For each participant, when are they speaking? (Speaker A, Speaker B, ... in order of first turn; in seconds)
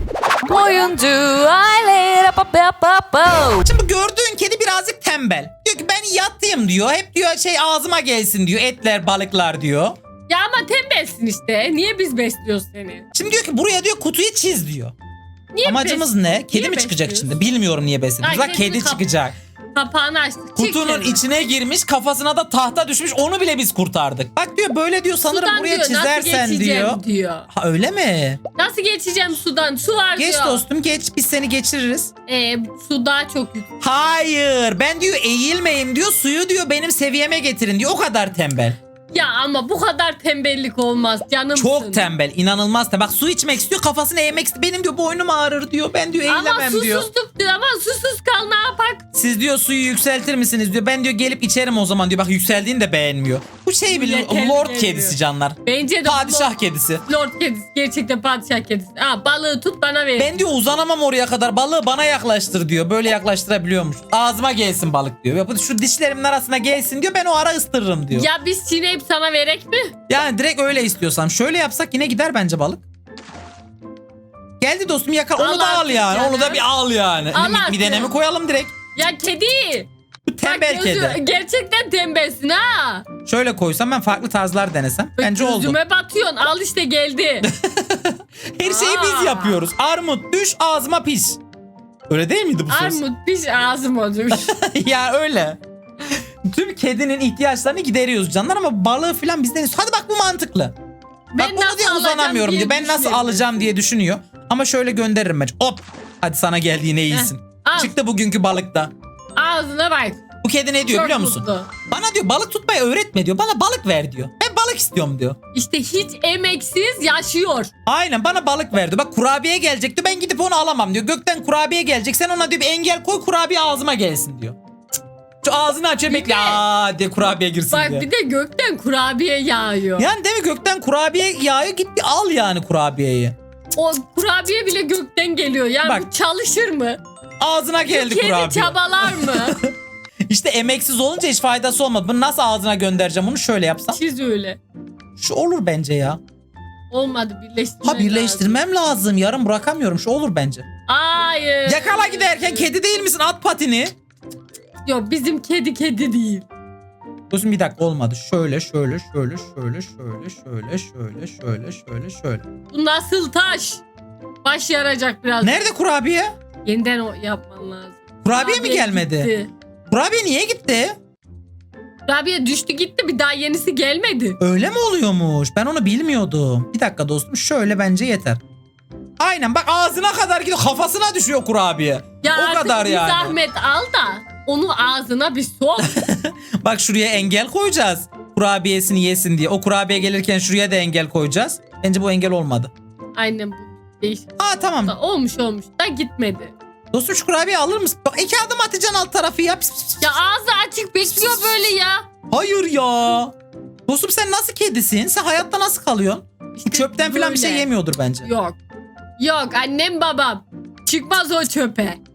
Speaker A: 0.5-3.6
Speaker B: 3.6-10.0, 13.1-14.9, 15.7-19.4, 20.6-28.4, 30.2-32.1, 33.8-38.8, 41.5-47.1, 49.1-57.0, 60.2-68.3, 70.1-72.8, 74.6-78.8, 80.3-81.2, 83.2-85.8, 87.4-91.4, 92.1-93.0, 94.3-100.7, 101.4-108.9, 110.4-115.4, 117.9-124.6, 125.4-128.1, 130.0-133.4, 137.4-139.7, 140.3-144.0, 145.2-146.2, 147.8-150.7, 151.7-153.9, 157.3-162.4, 165.4-166.4, 168.2-169.3, 169.9-171.0, 174.4-178.4, 179.2-183.4, 185.8-192.7, 194.4-194.9, 196.9-200.2, 201.1-201.7, 202.3-203.3, 203.9-208.3
Speaker C: 10.3-13.1, 15.5-17.3, 18.2-19.0, 19.8-21.2, 25.3-27.5, 28.6-30.6, 32.3-33.7, 39.1-42.1, 46.3-49.0, 53.9-56.5, 57.1-60.4, 68.1-70.0, 75.4-76.7, 77.3-78.1, 79.0-79.9, 80.4-83.1, 85.2-87.5, 88.6-89.6, 92.7-94.5, 101.3-103.6, 107.1-107.9, 109.4-110.2, 110.8-111.7, 115.5-117.7, 126.1-126.6, 127.7-130.1, 133.7-137.0, 137.9-139.6, 143.9-144.6, 146.9-148.6, 150.9-152.7, 154.8-156.5, 162.7-163.8, 164.4-165.6, 166.6-169.5, 172.1-174.4, 182.2-186.0, 193.2-196.5, 200.0-202.1, 206.6-207.7, 208.2-208.6, 209.2-212.0